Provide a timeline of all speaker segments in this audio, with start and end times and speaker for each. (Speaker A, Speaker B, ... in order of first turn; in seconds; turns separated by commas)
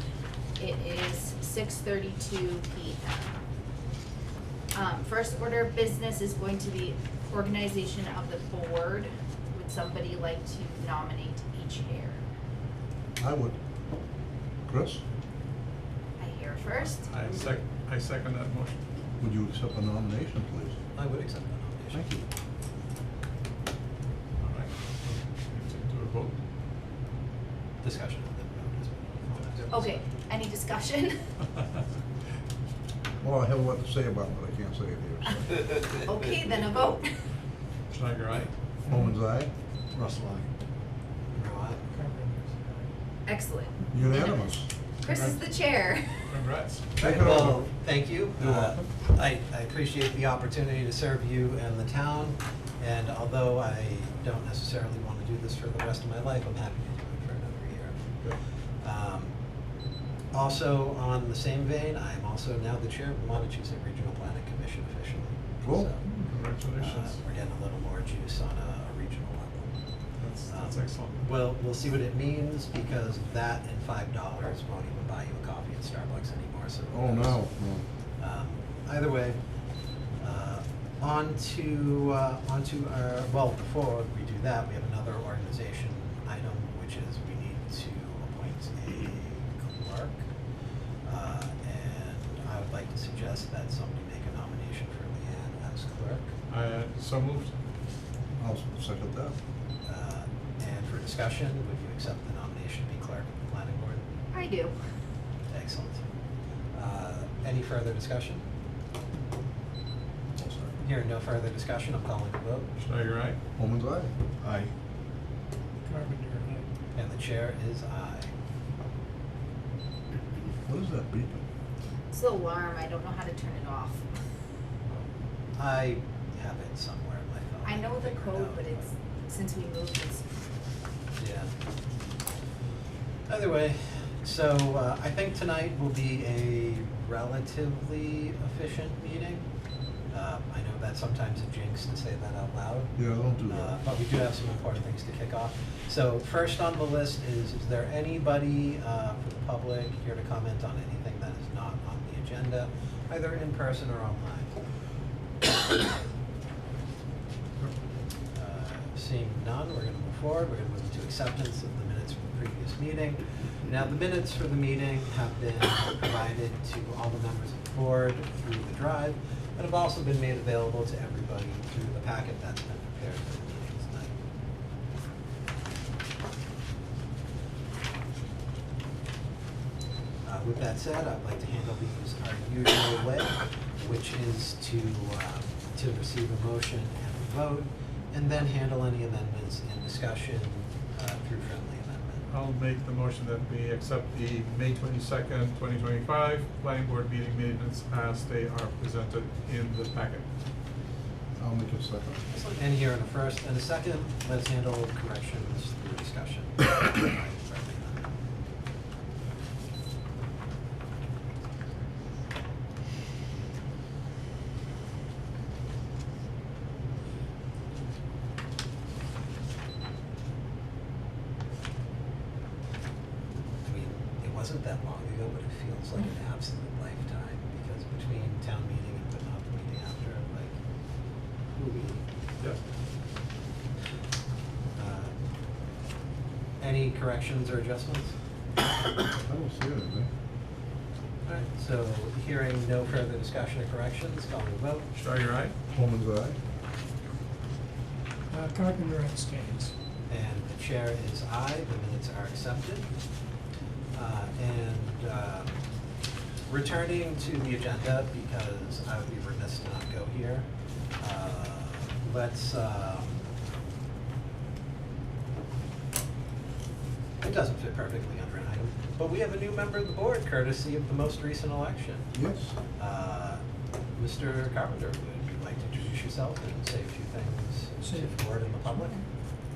Speaker A: 0.6-3.4, Speaker A: 4.7-12.2, Speaker B: 13.2-13.6, Speaker B: 14.7-15.0, Speaker A: 16.2-17.1, Speaker C: 16.9-18.8, Speaker B: 19.2-20.8, Speaker D: 20.9-22.0, Speaker B: 21.9-22.2, Speaker C: 24.4-26.3, Speaker D: 27.8-29.9, Speaker C: 29.3-29.9, Speaker A: 29.7-31.3, Speaker B: 33.2-35.5, Speaker A: 35.9-37.2, Speaker C: 37.9-38.5, Speaker B: 38.9-39.5, Speaker C: 40.0-40.2, Speaker D: 41.3-41.9, Speaker E: 42.0-42.9, Speaker A: 43.2-44.3, Speaker B: 43.9-44.7, Speaker A: 45.0-46.3, Speaker C: 45.0-45.4, Speaker C: 46.3-46.9, Speaker D: 47.0-58.0, Speaker B: 47.0-47.7, Speaker B: 48.4-48.9, Speaker D: 58.8-59.3, Speaker D: 60.3-66.0, Speaker B: 65.6-65.9, Speaker C: 66.0-67.2, Speaker D: 66.8-69.7, Speaker C: 70.2-71.3, Speaker D: 70.5-77.4, Speaker B: 76.9-77.8, Speaker D: 78.2-79.4, Speaker D: 80.2-90.2, Speaker D: 91.0-96.3, Speaker C: 96.5-97.5, Speaker B: 98.4-99.3, Speaker D: 99.8-104.0, Speaker A: 104.3-104.8, Speaker D: 105.5-106.0, Speaker D: 106.7-108.4, Speaker B: 110.3-110.8, Speaker D: 110.8-112.7, Speaker C: 112.8-113.4, Speaker B: 113.6-114.1, Speaker C: 114.4-114.7, Speaker E: 115.9-116.7, Speaker D: 116.9-118.3, Speaker B: 120.6-121.4, Speaker A: 122.1-124.0, Speaker D: 125.5-128.8, Speaker A: 127.6-130.2, Speaker D: 131.2-131.5, Speaker D: 133.3-139.4, Speaker D: 140.1-142.9, Speaker B: 142.9-143.7, Speaker D: 143.4-154.5, Speaker D: 158.3-174.1, Speaker D: 180.2-192.2, Speaker C: 192.3-200.2, Speaker B: 201.4-202.2, Speaker D: 202.3-208.1, Speaker D: 223.6-230.5, Speaker D: 231.5-232.0, Speaker D: 234.7-235.1, Speaker D: 236.6-238.1, Speaker B: 239.1-240.1, Speaker D: 241.2-244.8, Speaker C: 244.9-245.5, Speaker B: 245.7-246.4, Speaker E: 248.3-249.7, Speaker D: 250.1-252.9, Speaker D: 253.9-255.5, Speaker D: 256.5-260.5, Speaker D: 261.0-263.2, Speaker D: 267.2-272.1, Speaker B: 272.1-272.6, Speaker D: 272.8-273.4, Speaker D: 273.9-279.0